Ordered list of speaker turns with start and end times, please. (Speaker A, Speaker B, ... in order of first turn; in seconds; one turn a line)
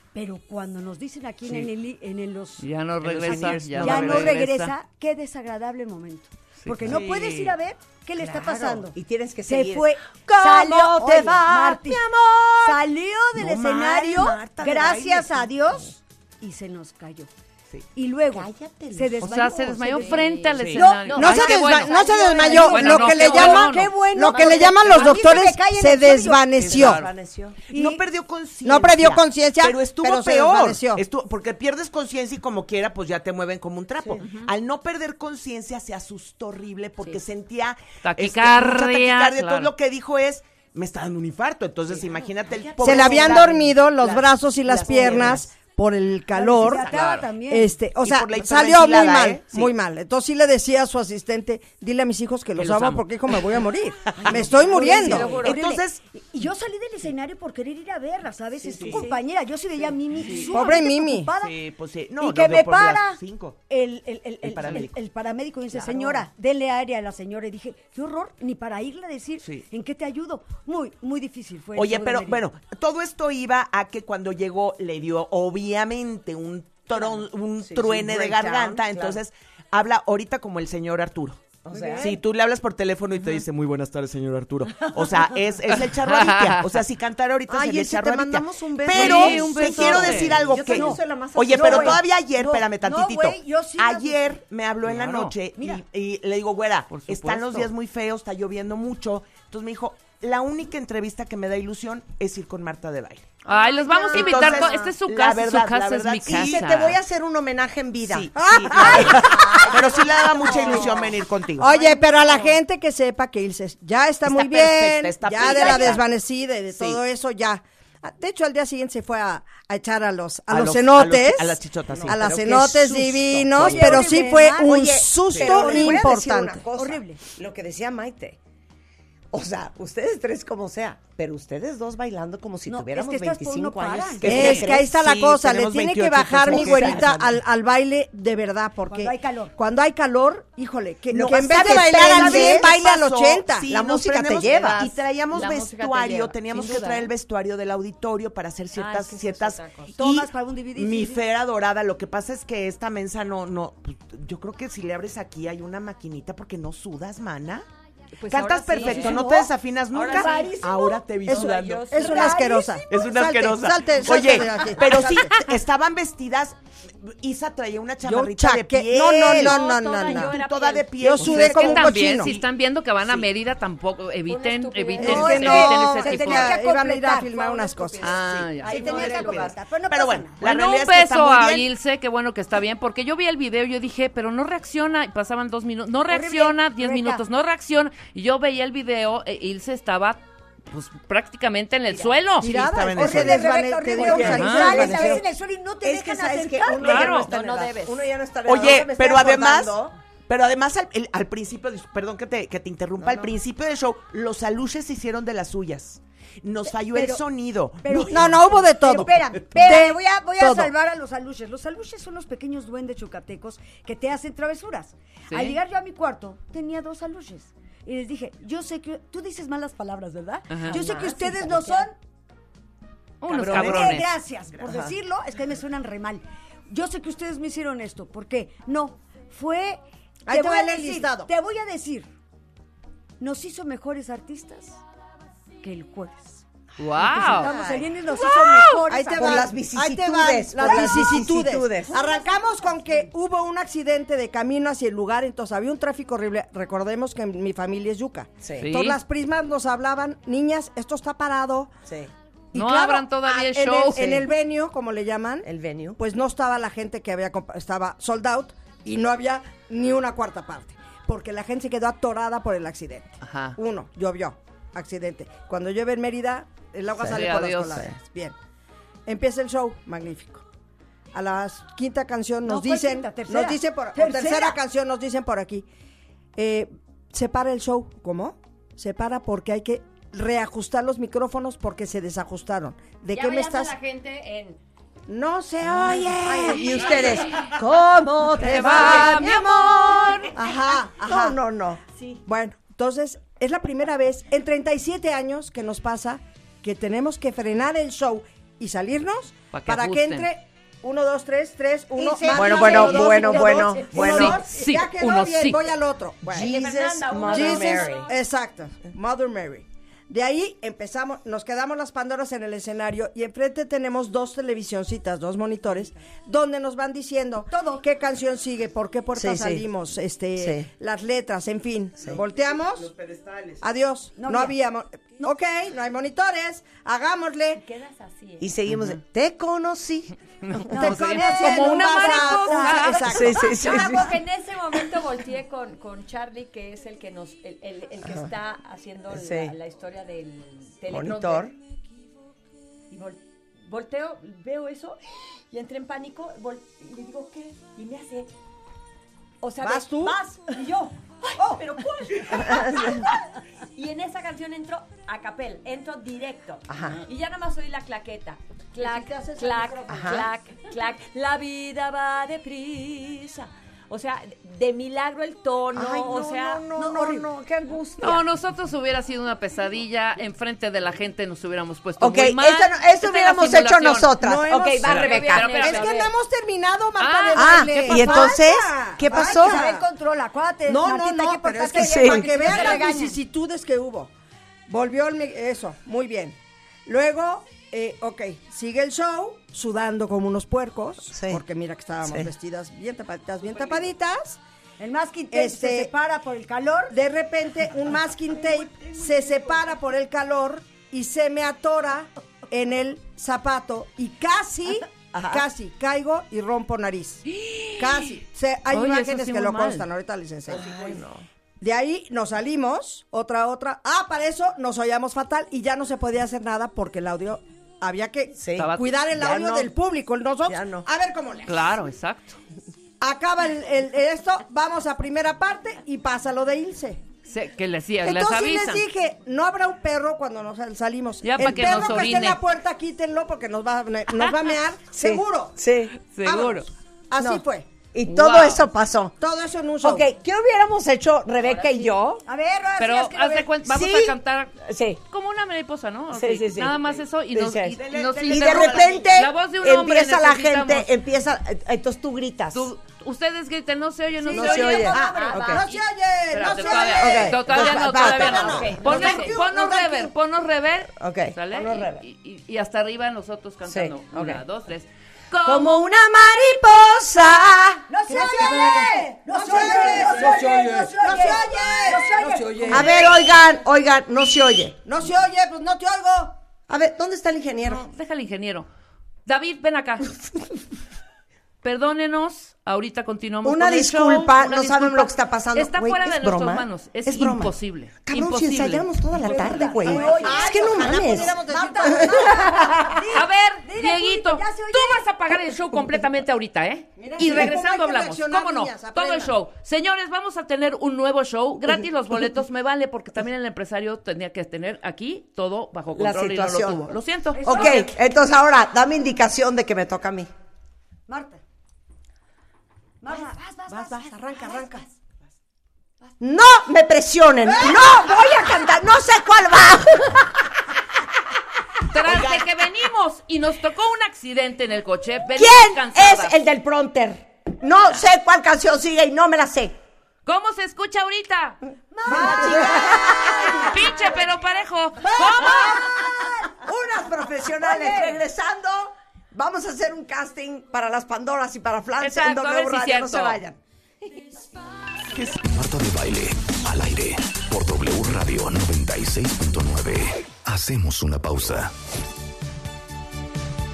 Speaker A: 0.1-2.7
Speaker B: 2.6-4.7
Speaker C: 3.0-4.4
Speaker A: 3.2-12.0
Speaker C: 6.7-7.1
Speaker B: 6.8-7.5
Speaker D: 8.2-12.8
Speaker A: 12.6-17.3
Speaker D: 13.4-15.5
Speaker A: 17.9-26.6
Speaker D: 18.3-19.6
Speaker B: 19.2-21.9
Speaker E: 20.0-20.4
Speaker C: 20.6-20.9
Speaker E: 21.1-21.3
Speaker F: 21.1-27.1
Speaker B: 22.4-23.9
Speaker D: 24.4-24.6
Speaker C: 26.6-27.1
Speaker D: 26.6-27.6
Speaker C: 27.6-43.7
Speaker A: 27.7-28.0
Speaker F: 28.6-31.0
Speaker D: 34.0-34.5
Speaker B: 38.0-39.7
Speaker D: 41.9-45.5
Speaker F: 42.8-47.0
Speaker A: 46.3-47.7
Speaker B: 46.8-47.3
Speaker F: 47.5-55.4
Speaker C: 48.0-49.7
Speaker B: 52.6-53.0
Speaker D: 54.2-55.6
Speaker C: 54.2-56.0
Speaker A: 54.5-61.6
Speaker E: 54.9-55.6
Speaker D: 58.7-59.2
Speaker C: 58.7-59.0
Speaker C: 60.2-60.5
Speaker F: 60.5-61.3
Speaker C: 61.4-63.6
Speaker A: 62.2-72.5
Speaker C: 64.4-65.0
Speaker C: 65.7-66.1
Speaker D: 65.8-66.2
Speaker C: 71.8-81.5
Speaker D: 76.9-79.2
Speaker D: 81.6-82.2
Speaker A: 81.7-82.1
Speaker C: 82.0-103.4
Speaker B: 85.9-86.8
Speaker F: 87.5-88.5
Speaker D: 87.7-92.1
Speaker B: 88.9-90.5
Speaker A: 90.5-94.4
Speaker B: 94.8-95.3
Speaker A: 95.5-95.8
Speaker B: 96.9-97.7
Speaker B: 103.4-107.0
Speaker D: 103.9-104.9
Speaker C: 104.0-106.7
Speaker D: 106.2-111.2
Speaker C: 108.0-111.7
Speaker F: 108.3-109.8
Speaker A: 110.5-110.8
Speaker F: 111.6-126.6
Speaker C: 114.2-116.0
Speaker D: 115.4-116.0
Speaker C: 116.7-117.0
Speaker C: 120.5-124.1
Speaker D: 123.2-128.4
Speaker A: 123.5-124.8
Speaker C: 125.3-125.6
Speaker A: 125.4-126.2
Speaker A: 126.7-127.2
Speaker D: 129.3-134.8
Speaker A: 132.7-134.6
Speaker C: 134.2-137.3
Speaker F: 134.2-143.7
Speaker D: 136.4-137.2
Speaker A: 138.9-139.5
Speaker D: 141.1-142.8
Speaker C: 141.2-157.7
Speaker D: 143.7-144.8
Speaker E: 144.5-147.1
Speaker E: 148.7-149.9
Speaker A: 149.9-151.2
Speaker E: 158.2-162.7
Speaker C: 158.3-162.4
Speaker D: 158.8-159.3
Speaker A: 159.1-159.3
Speaker A: 160.1-160.6
Speaker D: 160.1-160.5
Speaker F: 161.3-165.4
Speaker C: 162.9-172.5
Speaker F: 168.0-170.4
Speaker E: 169.2-171.0
Speaker F: 171.0-172.3
Speaker B: 171.2-176.6
Speaker C: 173.0-173.3
Speaker E: 174.3-175.8
Speaker F: 175.0-178.1
Speaker A: 175.0-180.5
Speaker C: 178.0-181.7
Speaker B: 178.1-178.8
Speaker D: 178.7-179.5
Speaker B: 180.4-192.5
Speaker A: 186.1-187.2
Speaker C: 192.4-193.4
Speaker F: 192.4-195.2
Speaker A: 192.9-197.2
Speaker D: 193.9-195.2
Speaker B: 194.2-194.9
Speaker D: 195.8-199.9
Speaker B: 196.8-197.3
Speaker E: 196.9-198.1
Speaker C: 198.4-208.5
Speaker D: 203.0-203.3
Speaker A: 206.9-207.2
Speaker A: 207.8-221.9
Speaker F: 208.1-210.7
Speaker B: 215.3-215.6
Speaker B: 220.5-220.8
Speaker D: 220.7-221.9
Speaker B: 223.2-224.1
Speaker C: 223.3-224.9
Speaker A: 223.4-232.1
Speaker F: 230.2-231.3
Speaker A: 233.2-234.8
Speaker A: 235.6-236.4
Speaker B: 236.8-237.5
Speaker D: 236.9-237.9
Speaker A: 237.0-239.5
Speaker F: 238.9-251.7
Speaker D: 239.1-241.9
Speaker A: 241.9-242.2
Speaker D: 248.4-248.7
Speaker B: 248.6-249.0
Speaker D: 251.8-252.1
Speaker F: 252.5-268.4
Speaker B: 252.5-254.3
Speaker D: 255.4-256.0
Speaker B: 263.2-263.6
Speaker B: 267.1-267.9
Speaker F: 269.1-270.4
Speaker F: 271.1-275.7
Speaker A: 272.4-274.6
Speaker F: 276.4-283.7
Speaker E: 283.1-284.6
Speaker F: 285.1-286.7
Speaker D: 285.7-290.3
Speaker E: 286.3-287.6
Speaker F: 288.4-289.3
Speaker B: 288.4-290.3
Speaker F: 290.3-291.4
Speaker D: 291.0-291.8
Speaker E: 291.9-292.2
Speaker F: 292.2-306.6
Speaker B: 299.5-300.3
Speaker A: 302.0-304.0
Speaker D: 302.3-304.4
Speaker B: 303.9-305.7
Speaker D: 306.3-308.1
Speaker E: 306.3-308.1
Speaker F: 307.3-322.9
Speaker A: 317.5-317.8
Speaker D: 319.1-319.6
Speaker D: 320.4-320.7
Speaker C: 322.1-323.6
Speaker F: 323.6-327.6
Speaker A: 324.2-324.6
Speaker E: 327.6-328.6
Speaker D: 328.4-330.1
Speaker B: 330.4-333.3
Speaker A: 330.7-333.0
Speaker F: 330.7-333.5
Speaker D: 333.0-334.1
Speaker E: 333.4-341.5
Speaker D: 339.1-339.5
Speaker D: 340.9-341.5
Speaker E: 342.9-348.3
Speaker E: 349.4-353.2
Speaker F: 349.6-350.2
Speaker D: 352.6-352.9
Speaker E: 353.7-367.3
Speaker D: 356.7-357.0
Speaker F: 358.8-360.2
Speaker D: 359.9-360.3
Speaker D: 365.7-368.2
Speaker B: 368.0-374.1
Speaker D: 372.0-375.6
Speaker F: 374.2-379.9
Speaker E: 374.5-376.1
Speaker B: 374.8-375.9
Speaker B: 377.0-378.3
Speaker D: 377.3-379.7
Speaker A: 379.1-383.1
Speaker F: 380.6-384.1
Speaker D: 381.7-382.3
Speaker E: 382.3-383.1
Speaker F: 384.7-394.4
Speaker D: 391.1-391.4
Speaker A: 394.8-397.0
Speaker F: 395.3-395.9
Speaker F: 396.9-407.2
Speaker D: 405.1-405.4
Speaker B: 407.2-409.9
Speaker F: 407.8-411.0
Speaker D: 410.5-411.2
Speaker F: 411.6-421.8
Speaker D: 418.4-419.7
Speaker B: 418.6-418.9
Speaker D: 420.5-420.9
Speaker B: 421.4-422.4
Speaker F: 423.0-427.0
Speaker B: 427.3-428.8
Speaker F: 428.0-435.6
Speaker B: 431.2-432.4
Speaker D: 434.9-436.0
Speaker B: 436.0-436.7
Speaker F: 436.2-437.7
Speaker D: 437.2-439.1
Speaker B: 438.0-438.6
Speaker F: 439.2-440.1
Speaker D: 439.8-442.2
Speaker E: 441.5-441.9
Speaker A: 442.2-443.5
Speaker B: 442.8-444.6
Speaker D: 443.6-445.0
Speaker B: 445.1-450.9
Speaker D: 446.1-446.8
Speaker D: 447.3-452.7
Speaker C: 447.7-449.2
Speaker B: 452.5-455.0
Speaker D: 454.3-455.6
Speaker E: 454.3-455.6
Speaker F: 454.9-460.1
Speaker B: 455.6-465.7
Speaker D: 457.0-458.9
Speaker E: 458.1-459.4
Speaker D: 461.0-462.0
Speaker D: 463.6-464.4
Speaker D: 465.4-468.9
Speaker A: 467.9-472.9
Speaker F: 468.1-473.1
Speaker D: 469.4-470.9
Speaker D: 472.6-474.8
Speaker F: 474.8-476.4
Speaker D: 476.7-477.9
Speaker B: 477.6-478.7
Speaker B: 479.2-480.1
Speaker B: 481.6-488.9
Speaker D: 483.4-493.0
Speaker A: 489.2-495.1
Speaker F: 489.7-492.8
Speaker E: 489.9-490.4
Speaker B: 493.1-507.9
Speaker F: 497.0-499.4
Speaker D: 505.9-510.3
Speaker A: 507.3-507.9
Speaker A: 511.1-511.4
Speaker A: 513.0-514.8
Speaker D: 513.7-514.8
Speaker D: 516.2-520.5
Speaker B: 521.9-526.3
Speaker C: 522.0-522.5
Speaker D: 525.3-529.8
Speaker B: 530.2-531.6
Speaker A: 531.9-534.3
Speaker D: 532.0-533.7
Speaker F: 532.0-533.0
Speaker B: 533.6-535.8
Speaker D: 535.1-543.6
Speaker A: 535.2-535.5
Speaker A: 537.6-538.2
Speaker B: 542.0-543.4
Speaker C: 545.1-545.4
Speaker G: 545.4-551.7